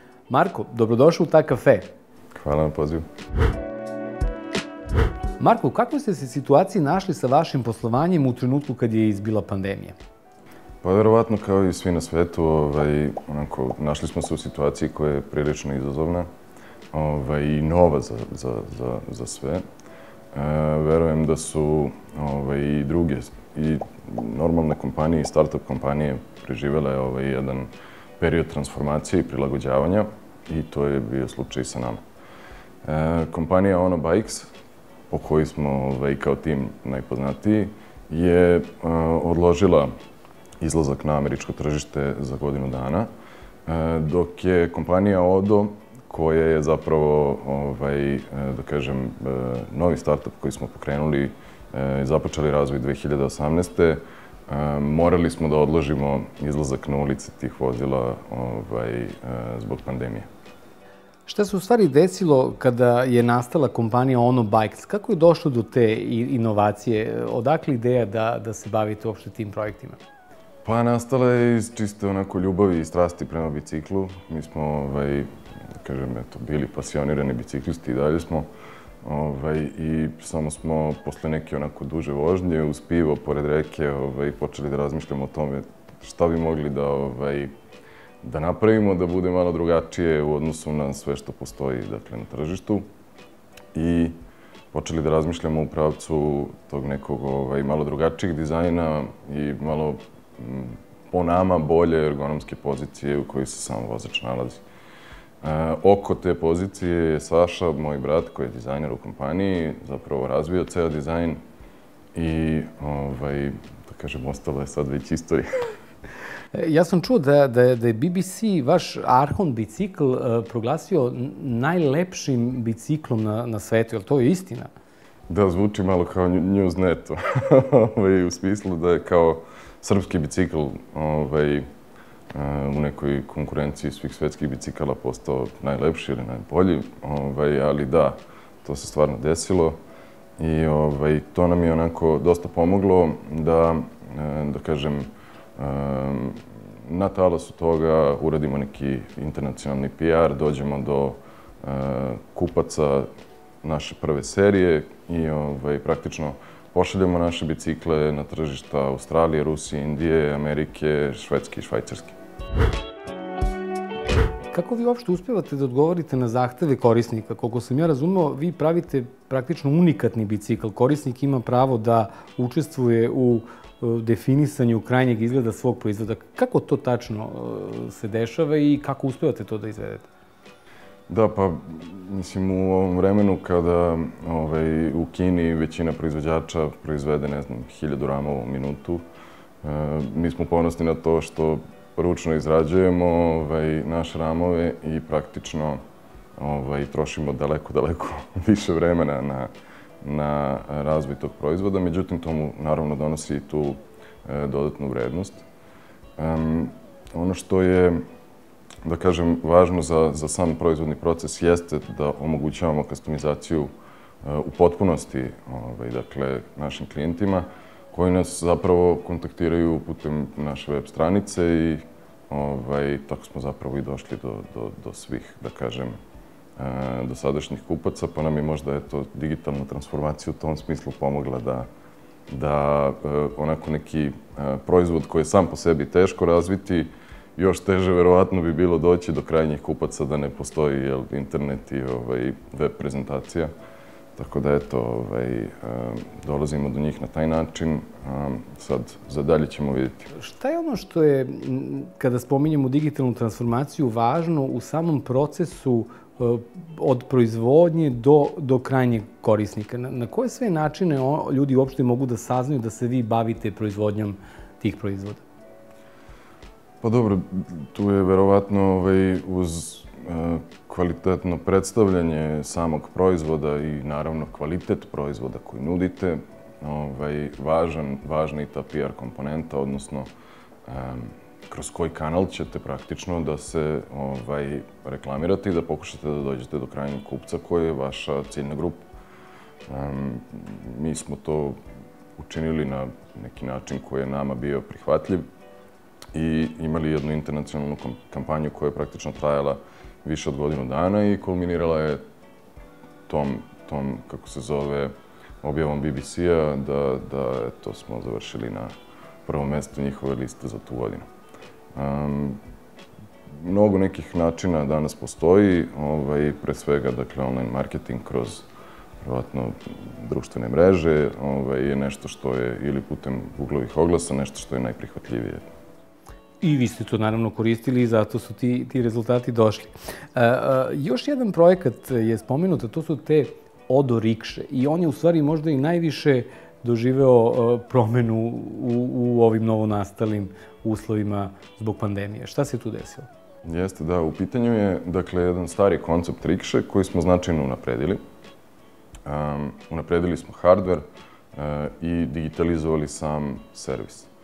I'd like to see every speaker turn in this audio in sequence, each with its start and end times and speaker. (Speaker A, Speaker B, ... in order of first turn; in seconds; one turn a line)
Speaker A: 0.3-1.9
Speaker B: 2.4-3.0
Speaker A: 5.4-9.9
Speaker B: 10.8-16.3
Speaker B: 16.9-19.6
Speaker B: 20.3-32.0
Speaker B: 32.8-34.5
Speaker B: 35.1-39.9
Speaker B: 40.6-43.1
Speaker B: 43.6-60.2
Speaker A: 61.2-70.0
Speaker B: 70.6-75.3
Speaker B: 75.8-78.5
Speaker B: 79.0-87.5
Speaker B: 88.2-92.8
Speaker B: 93.7-94.2
Speaker B: 94.7-104.6
Speaker B: 105.4-111.4
Speaker B: 112.1-115.5
Speaker A: 116.5-124.7
Speaker B: 125.3-131.7
Speaker B: 132.3-139.8
Speaker B: 140.4-153.1
Speaker B: 153.6-162.2
Speaker A: 164.5-180.1
Speaker B: 181.1-189.0
Speaker B: 189.6-195.8
Speaker B: 196.4-199.5
Speaker B: 200.0-205.4
Speaker B: 206.2-208.0
Speaker B: 208.8-213.7
Speaker B: 214.2-225.9
Speaker B: 226.6-231.7
Speaker B: 232.3-243.5
Speaker B: 244.2-250.1
Speaker A: 250.1-265.2
Speaker B: 266.8-280.1
Speaker B: 280.6-288.8
Speaker B: 289.7-291.6
Speaker B: 292.2-295.2
Speaker B: 296.1-302.0
Speaker B: 303.1-308.7
Speaker B: 309.2-311.0
Speaker B: 311.7-312.4
Speaker B: 313.4-318.4
Speaker B: 319.0-325.5
Speaker A: 326.4-343.1
Speaker B: 343.4-348.0
Speaker B: 349.0-350.8
Speaker B: 351.3-354.1